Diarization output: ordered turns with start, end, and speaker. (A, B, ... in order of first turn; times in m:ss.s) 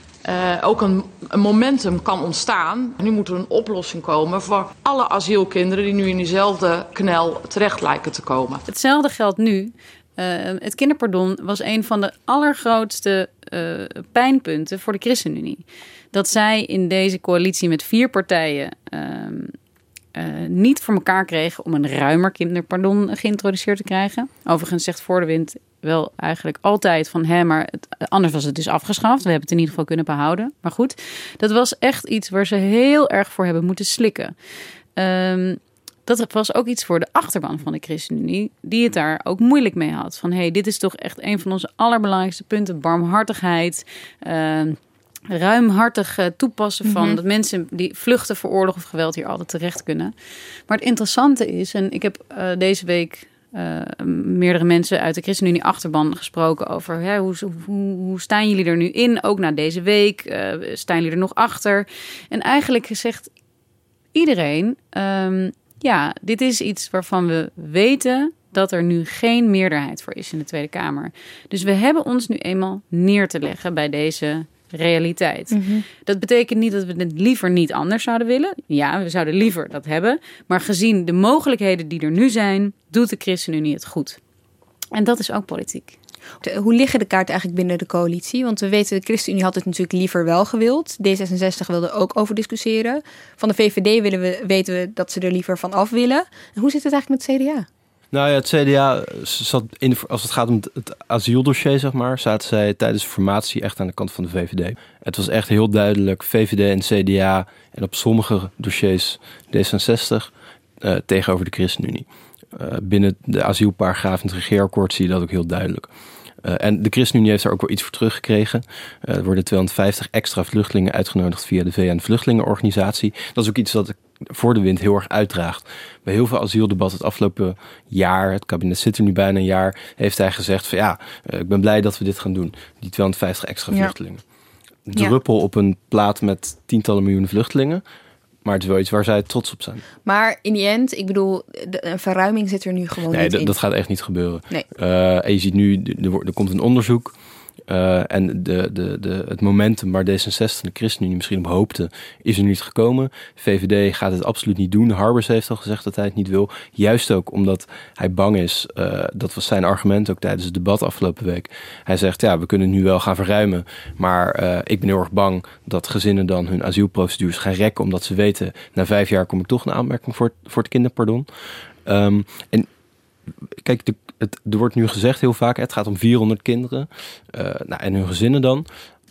0:00.2-0:08.6 A
0:08.7-0:19.5 B
0:20.1-0:34.3 B
0:35.0-0:44.8 B
0:45.3-0:50.1 B
0:46.8-0:47.2 C
0:50.7-1:03.3 B
1:04.1-1:24.2 B
1:15.5-1:15.8 C
1:24.9-1:26.0 B
1:26.4-1:37.7 C
1:38.1-1:50.3 D
1:50.8-1:55.9 D
1:56.4-2:14.2 D
2:14.9-2:17.8 D
2:18.4-2:19.8 D
2:20.1-2:23.5 C
2:23.1-2:27.1 D
2:27.7-2:51.3 D
2:51.8-2:52.7 D
2:53.6-2:58.7 D